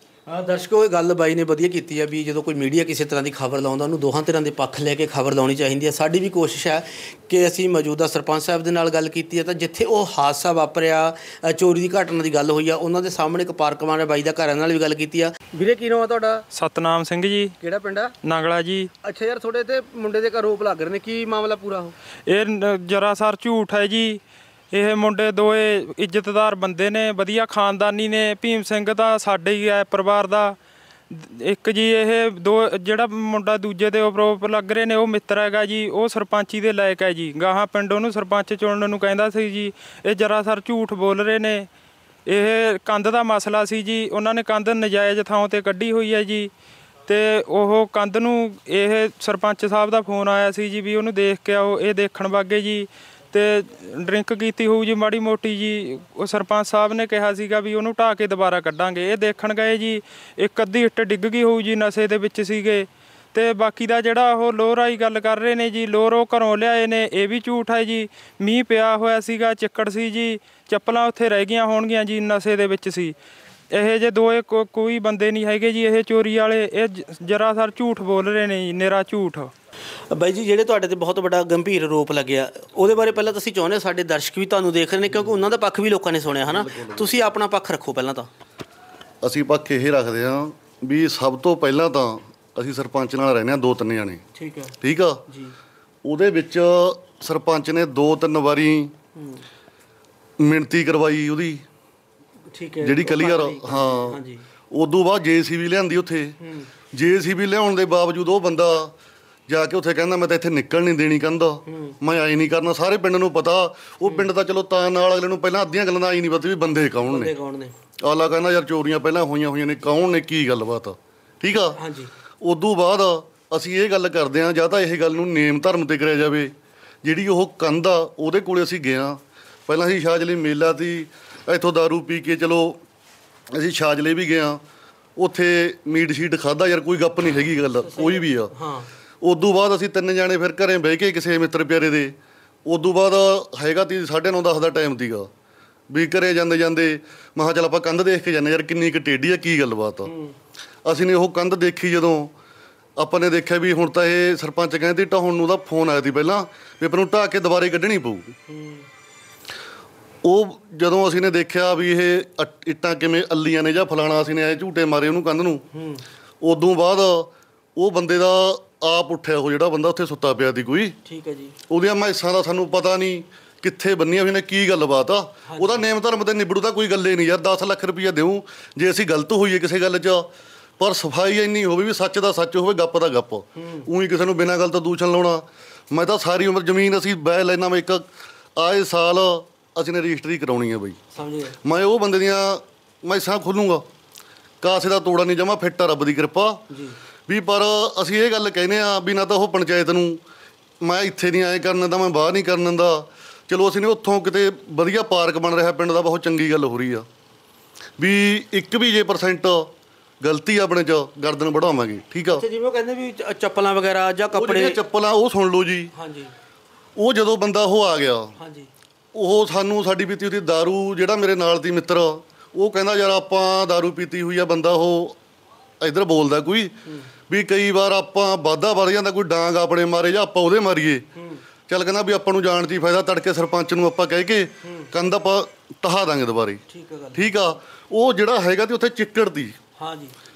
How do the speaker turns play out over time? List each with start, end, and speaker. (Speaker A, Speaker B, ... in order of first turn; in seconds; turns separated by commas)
Speaker A: 0.3-16.4, Speaker B: 16.6-17.5, Speaker A: 17.6-18.1, Speaker B: 18.3-18.9, Speaker A: 19.0-21.9, Speaker B: 22.3-24.2, Speaker B: 24.7-30.6, Speaker B: 31.1-41.7, Speaker B: 42.3-46.5, Speaker B: 47.1-73.2, Speaker B: 73.7-79.5, Speaker A: 80.1-88.3, Speaker C: 86.5-87.1, Speaker C: 89.2-94.2, Speaker A: 94.3-94.7, Speaker C: 94.8-95.2, Speaker A: 95.3-95.5, Speaker C: 96.0-98.9, Speaker A: 99.2-99.4, Speaker C: 100.4-101.6, Speaker A: 102.5-104.4, Speaker C: 102.8-104.2, Speaker C: 104.7-106.3, Speaker A: 106.4-106.7, Speaker C: 106.9-108.9, Speaker C: 109.5-117.3, Speaker A: 111.7-111.9, Speaker A: 117.0-117.7, Speaker C: 118.0-121.8, Speaker A: 121.7-122.1, Speaker C: 122.4-126.5, Speaker C: 127.0-132.8, Speaker C: 133.5-134.6, Speaker C: 135.2-138.5, Speaker A: 137.8-138.9, Speaker C: 139.2-142.1, Speaker C: 142.7-145.3, Speaker C: 145.9-150.1, Speaker A: 150.1-150.3, Speaker C: 150.8-152.3, Speaker C: 153.0-158.3, Speaker A: 158.5-158.8, Speaker C: 160.2-165.6, Speaker A: 165.7-166.0, Speaker C: 166.4-170.9, Speaker A: 171.1-171.6, Speaker C: 171.7-180.3, Speaker A: 175.5-175.9, Speaker C: 180.8-191.0, Speaker A: 183.6-183.9, Speaker A: 191.1-191.6, Speaker C: 191.6-193.8, Speaker C: 194.6-196.6, Speaker A: 196.7-197.0, Speaker C: 197.3-200.2, Speaker C: 200.8-207.1, Speaker C: 208.0-209.7, Speaker C: 210.2-212.4, Speaker A: 212.3-214.8, Speaker C: 214.3-215.9, Speaker A: 215.9-216.3, Speaker C: 217.0-218.3, Speaker A: 218.4-218.7, Speaker C: 219.1-225.2, Speaker C: 225.8-226.7, Speaker C: 227.3-231.0, Speaker C: 231.7-236.6, Speaker A: 234.6-234.9, Speaker A: 236.7-237.3, Speaker C: 237.2-239.6, Speaker A: 239.8-240.2